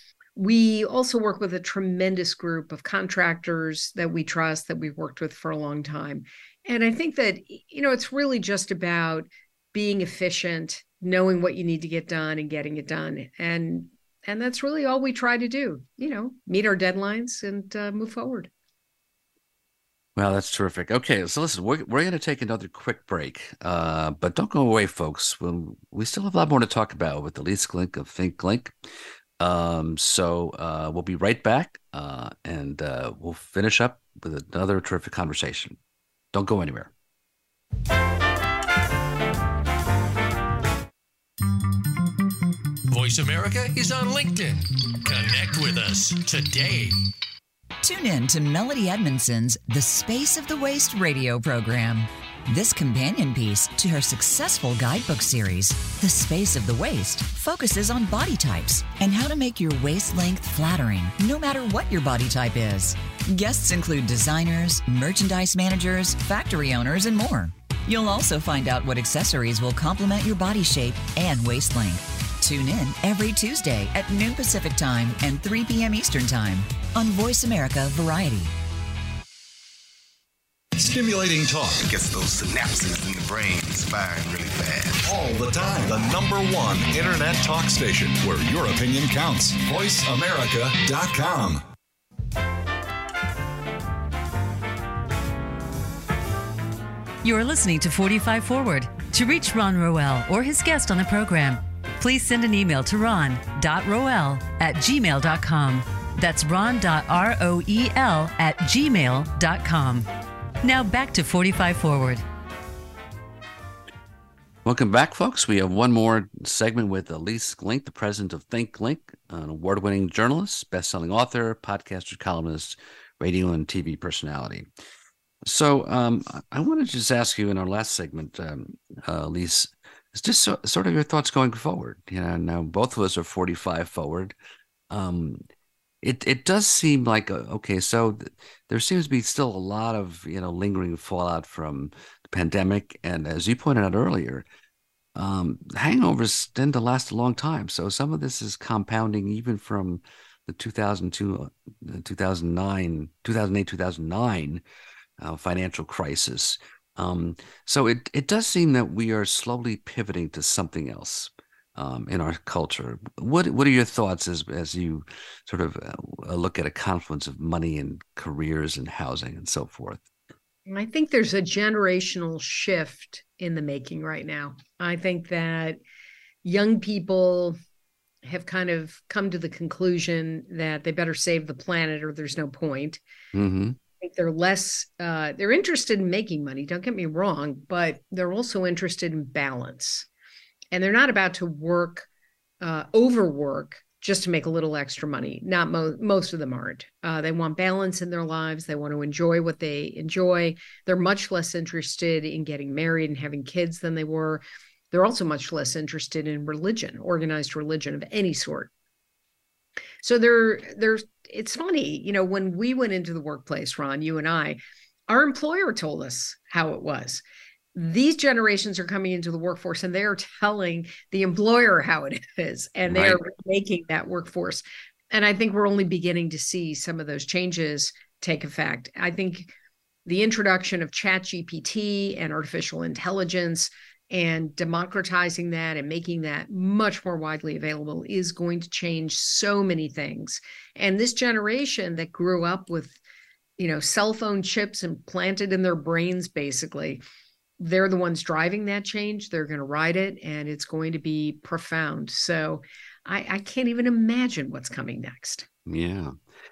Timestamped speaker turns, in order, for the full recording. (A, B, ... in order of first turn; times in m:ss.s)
0:00.4-0:18.5 A
0:20.2-0:28.8 B
0:29.4-0:35.8 B
0:36.3-0:36.9 B
0:42.9-0:47.0 C
0:47.8-1:18.5 D
1:20.7-1:21.8 E
1:21.8-1:25.1 F
1:25.0-1:31.6 E
1:37.2-1:50.1 G
1:50.6-1:52.2 G
1:54.6-2:04.7 B
2:05.4-2:14.3 B
2:14.9-2:15.4 B
2:16.0-2:24.5 B
2:25.2-2:34.6 B
2:35.2-2:50.0 B
2:50.7-2:55.8 A
2:56.4-2:57.6 A
2:58.2-3:03.0 A
3:03.3-3:03.8 B
3:04.0-3:10.0 A
3:10.7-3:12.1 A
3:12.6-3:28.7 A
3:30.0-3:37.2 A
3:37.7-3:49.5 A
3:42.9-3:43.2 B
3:50.0-4:03.0 A
4:03.6-4:07.0 A
4:07.6-4:15.4 A
4:15.6-4:16.2 B